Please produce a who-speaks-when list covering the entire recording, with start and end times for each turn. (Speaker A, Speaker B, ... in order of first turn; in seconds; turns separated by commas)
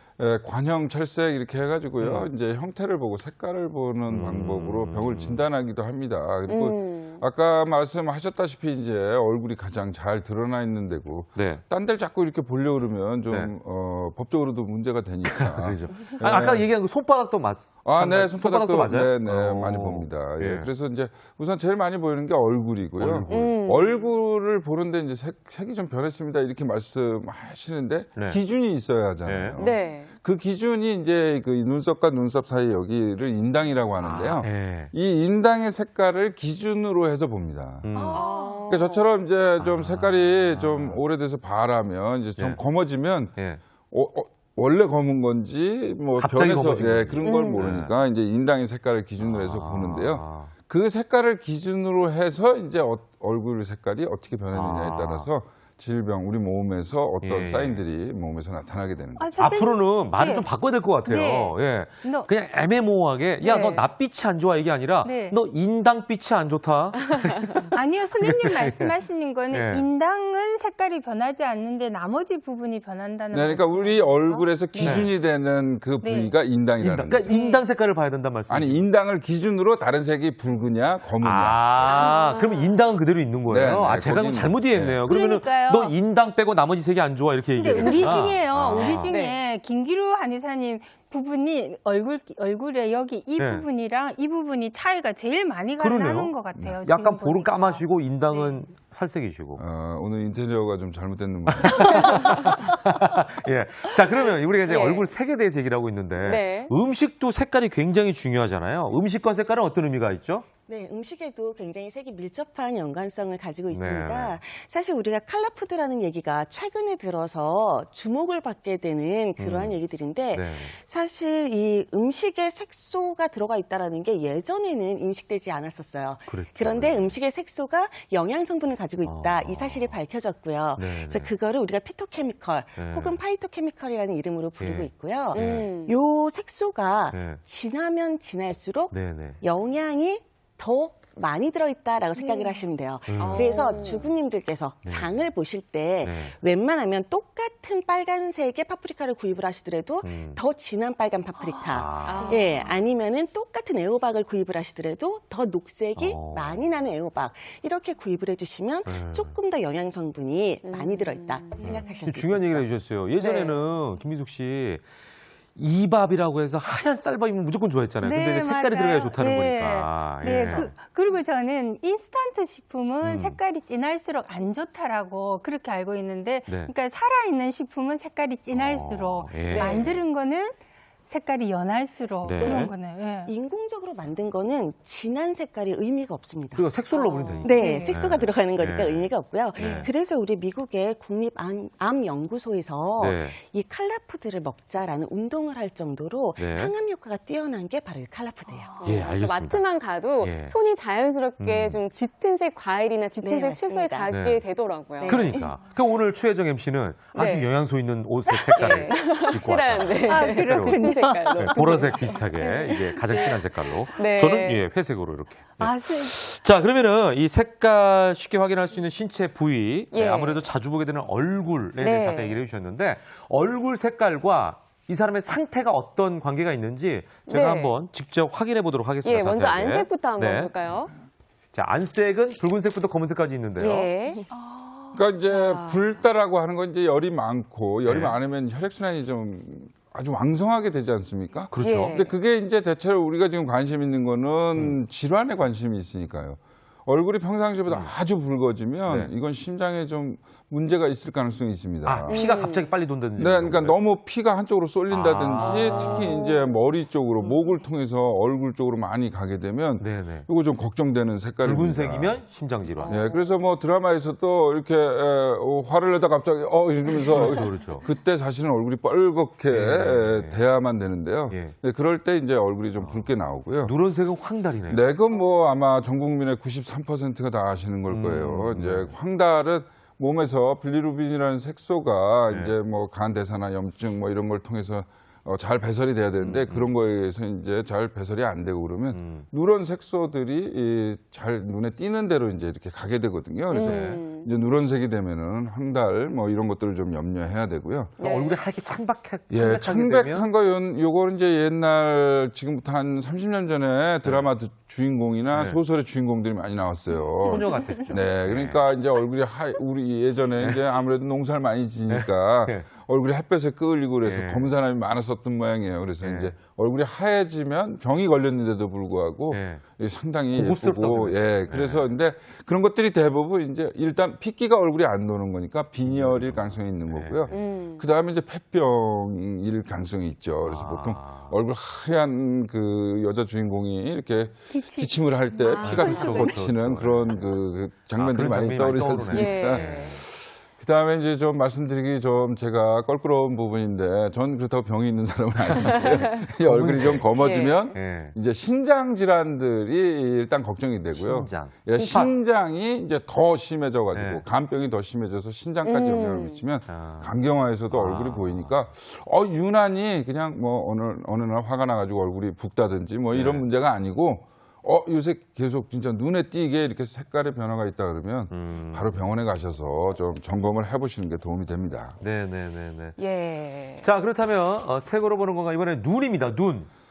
Speaker A: 0.2-16.7, Speaker B: 2.0-2.3, Speaker B: 4.1-5.4, Speaker C: 6.5-7.2, Speaker B: 11.3-11.6, Speaker B: 15.2-20.7, Speaker A: 17.8-37.9, Speaker B: 23.0-23.5, Speaker C: 23.3-24.1, Speaker B: 28.1-28.4, Speaker B: 29.2-29.6, Speaker C: 29.6-30.1, Speaker B: 34.0-34.9, Speaker B: 37.8-38.2, Speaker D: 37.9-38.6, Speaker C: 38.1-39.1, Speaker A: 38.7-43.3, Speaker B: 39.6-41.0, Speaker A: 43.9-59.3, Speaker B: 46.2-47.9, Speaker C: 47.2-47.7, Speaker B: 49.2-50.5, Speaker B: 54.5-55.3, Speaker B: 57.2-57.8, Speaker D: 59.2-60.5, Speaker B: 59.4-68.9, Speaker D: 61.0-62.3, Speaker C: 63.4-63.9, Speaker D: 65.0-65.3, Speaker D: 67.7-75.1, Speaker B: 69.5-69.8, Speaker A: 73.3-77.3, Speaker B: 74.8-75.1, Speaker D: 76.0-76.3, Speaker B: 76.8-78.8, Speaker D: 77.3-77.7, Speaker A: 78.5-82.0, Speaker B: 81.2-89.1, Speaker D: 81.8-82.8, Speaker A: 83.5-85.0, Speaker D: 85.0-85.9, Speaker D: 87.5-98.6, Speaker C: 87.8-89.4, Speaker B: 93.4-93.7, Speaker B: 95.8-99.6, Speaker A: 99.6-102.4, Speaker B: 101.5-110.5, Speaker C: 102.0-102.5, Speaker C: 104.7-105.1, Speaker C: 106.2-106.7, Speaker E: 110.7-162.6, Speaker B: 113.7-114.4, Speaker B: 119.4-119.8, Speaker B: 120.3-120.8, Speaker B: 126.3-127.2, Speaker B: 129.0-130.0, Speaker B: 130.8-131.3, Speaker B: 132.8-133.2, Speaker B: 134.6-135.7, Speaker C: 135.3-135.9, Speaker B: 137.1-137.4, Speaker B: 138.9-139.4, Speaker D: 142.1-142.7, Speaker B: 143.1-143.8, Speaker C: 143.2-144.1, Speaker B: 144.8-145.3, Speaker B: 146.0-146.3, Speaker B: 150.0-150.4, Speaker D: 151.4-152.7, Speaker B: 151.7-152.4, Speaker C: 152.0-152.5, Speaker B: 155.9-156.8, Speaker B: 158.8-159.3, Speaker C: 160.6-161.6, Speaker B: 161.6-164.8, Speaker C: 163.2-163.6, Speaker B: 165.6-170.7, Speaker D: 168.0-180.5, Speaker B: 173.0-173.4, Speaker B: 178.5-179.9, Speaker C: 179.5-180.0, Speaker D: 181.1-183.3, Speaker B: 182.2-182.7, Speaker E: 182.4-182.7, Speaker E: 183.2-186.7, Speaker B: 186.5-189.9, Speaker D: 187.0-187.9, Speaker E: 187.3-199.0, Speaker B: 193.0-193.4, Speaker B: 196.4-196.7, Speaker D: 198.5-198.8, Speaker C: 198.8-205.3, Speaker B: 198.8-199.6, Speaker B: 200.2-200.6, Speaker B: 201.4-201.8, Speaker E: 203.2-204.1, Speaker B: 204.1-204.4, Speaker E: 205.0-205.5, Speaker B: 205.0-230.5, Speaker C: 207.1-207.5, Speaker C: 208.3-212.2, Speaker E: 208.6-209.1, Speaker D: 210.1-212.7, Speaker C: 213.9-214.6, Speaker D: 215.6-216.2, Speaker C: 219.9-220.4, Speaker C: 221.8-222.4, Speaker C: 227.3-227.7, Speaker C: 229.0-230.9, Speaker B: 231.5-233.9, Speaker C: 233.6-234.2, Speaker D: 234.3-235.0, Speaker A: 234.9-252.2, Speaker C: 235.3-235.9, Speaker B: 237.8-238.1, Speaker B: 241.5-242.0, Speaker C: 241.6-242.1, Speaker B: 247.7-247.9, Speaker B: 251.8-253.8, Speaker C: 252.1-252.7, Speaker A: 253.2-262.2, Speaker B: 254.9-256.2, Speaker C: 255.5-256.4, Speaker C: 257.2-257.5, Speaker B: 259.8-260.3, Speaker B: 261.4-263.0, Speaker C: 262.8-263.2, Speaker A: 262.9-273.7, Speaker B: 267.1-267.8, Speaker B: 269.5-270.4, Speaker B: 271.3-271.5, Speaker B: 272.8-273.1, Speaker B: 273.6-274.8, Speaker A: 274.7-297.9, Speaker B: 277.9-278.9, Speaker B: 286.2-286.7, Speaker B: 288.9-289.2, Speaker C: 293.5-294.3, Speaker B: 293.6-294.0, Speaker C: 298.0-298.4, Speaker B: 298.0-300.3, Speaker A: 299.3-372.0, Speaker B: 305.3-305.6, Speaker B: 307.2-308.6, Speaker B: 311.9-312.6, Speaker B: 314.0-314.5, Speaker B: 316.0-316.3, Speaker B: 319.3-319.6, Speaker B: 320.3-321.9, Speaker B: 325.9-327.4, Speaker C: 327.3-327.8, Speaker B: 330.4-331.3, Speaker D: 334.5-336.4, Speaker B: 335.6-337.4, Speaker C: 335.6-336.0, Speaker B: 337.9-340.0, Speaker C: 339.0-340.0, Speaker B: 345.5-347.2, Speaker C: 347.1-347.7, Speaker B: 347.7-348.1, Speaker B: 350.9-352.1, Speaker B: 353.9-354.2, Speaker C: 355.6-356.4, Speaker B: 356.7-357.1, Speaker B: 357.7-358.6, Speaker B: 363.1-363.4, Speaker B: 368.3-369.0, Speaker B: 372.0-373.0, Speaker C: 373.0-373.9, Speaker B: 373.8-376.7